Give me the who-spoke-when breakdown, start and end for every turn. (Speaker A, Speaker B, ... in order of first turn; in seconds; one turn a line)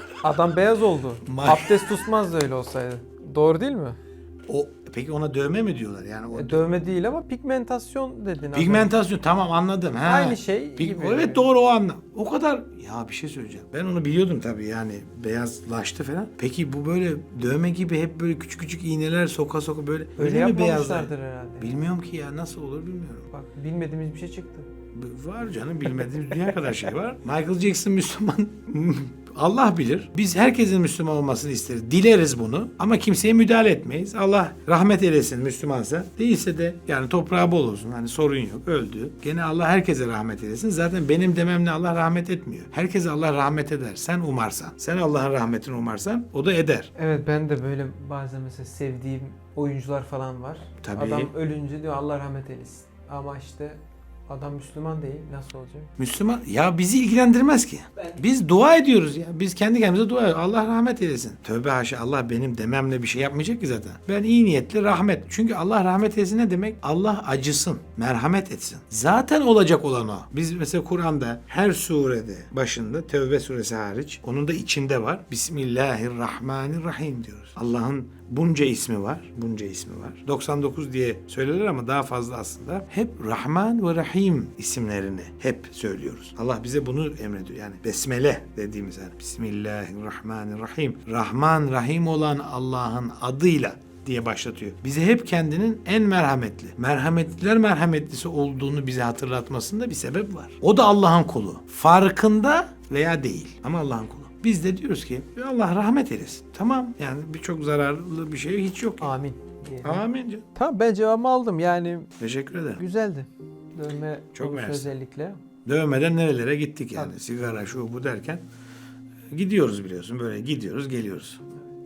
Speaker A: 0.2-4.0
Speaker B: 1.3-2.0
Speaker B: 4.5-6.6
Speaker A: 6.3-8.9
Speaker B: 8.5-23.3
Speaker A: 10.0-11.5
Speaker A: 20.2-21.8
Speaker A: 23.3-24.7
Speaker B: 24.9-46.9
Speaker A: 47.0-55.9
Speaker B: 50.8-51.3
Speaker B: 56.0-109.2
Speaker A: 109.0-112.1
Speaker B: 109.8-110.4
Speaker B: 112.2-112.8
Speaker A: 112.8-115.4
Speaker B: 114.3-114.9
Speaker B: 115.7-118.4
Speaker B: 119.3-121.4